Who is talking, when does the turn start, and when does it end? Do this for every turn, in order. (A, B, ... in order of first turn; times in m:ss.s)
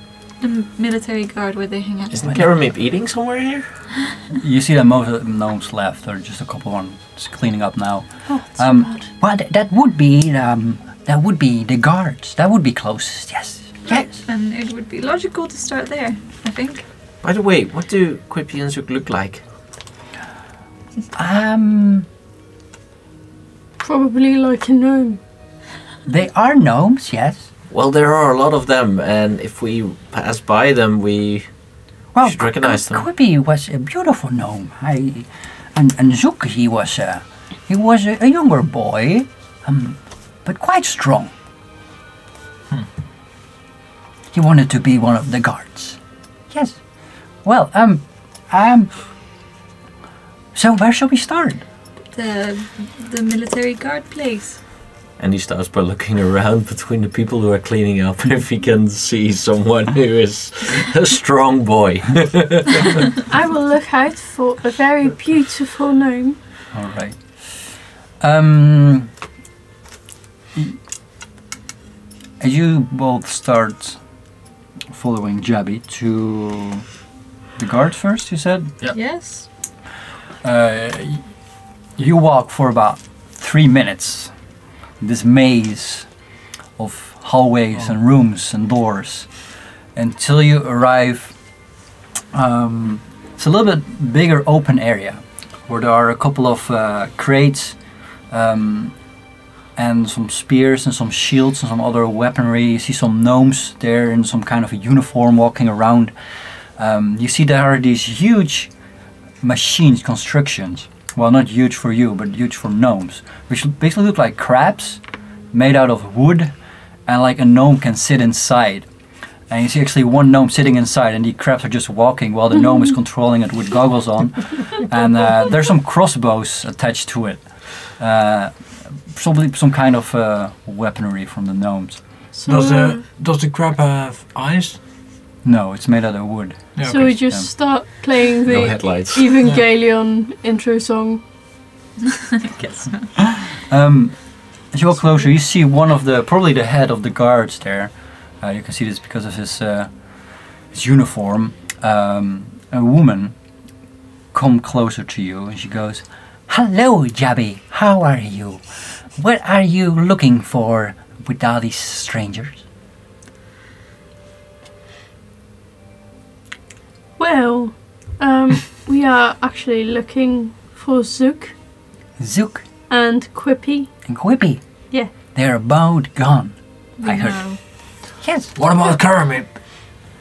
0:00.4-0:02.2 A
0:02.1-0:03.7 B
0:04.3-0:14.2 C
0:08.3-0:09.1 D
0:13.9-0:16.8 A
0:17.2-0:19.4 B
0:21.1-0:22.1 C
0:23.8-0:25.2 D
0:26.1-0:27.5 C
0:27.7-0:31.5 B
0:32.1-0:41.3 C
0:32.3-0:33.0 B
0:44.3-0:46.0 C
0:46.5-0:46.8 C
0:47.4-0:48.9 C
0:50.6-0:51.6 C
0:52.1-0:54.6 A
0:55.2-1:03.1 B
1:03.3-1:06.4 D
1:06.7-1:07.7 C
1:08.2-1:09.1 C
1:12.4-1:14.0 C
1:14.9-1:16.9 C
1:17.6-1:18.7 C
1:18.9-1:19.5 A
1:20.4-1:21.2 C
1:22.0-1:24.3 C
1:25.0-1:26.1 C
1:26.8-1:29.3 C
1:30.0-1:31.4 C
1:32.3-1:37.8 C
1:38.3-1:38.9 C
1:39.8-1:46.1 C
1:46.8-1:48.7 C
1:49.4-1:55.0 C
1:55.5-1:56.5 C
1:57.1-1:58.9 C
1:59.5-2:07.4 C
2:08.0-2:12.0 C
2:12.4-2:13.0 D
2:12.5-2:14.8 E
2:15.4-2:17.5 C
2:16.8-2:17.1 E
2:16.8-2:21.2 D
2:18.4-2:19.3 B
2:22.0-2:23.1 A
2:23.2-2:24.2 C
2:24.7-2:29.9 C
2:30.7-2:33.4 C
2:34.3-2:38.6 C
2:39.2-2:42.6 C
2:47.2-2:51.6 D
2:52.2-2:52.6 C
2:52.9-2:53.9 D
2:54.0-2:54.6 C
2:55.3-2:57.4 C
2:57.0-2:57.6 A
2:58.2-2:58.5 C
2:58.6-2:59.5 E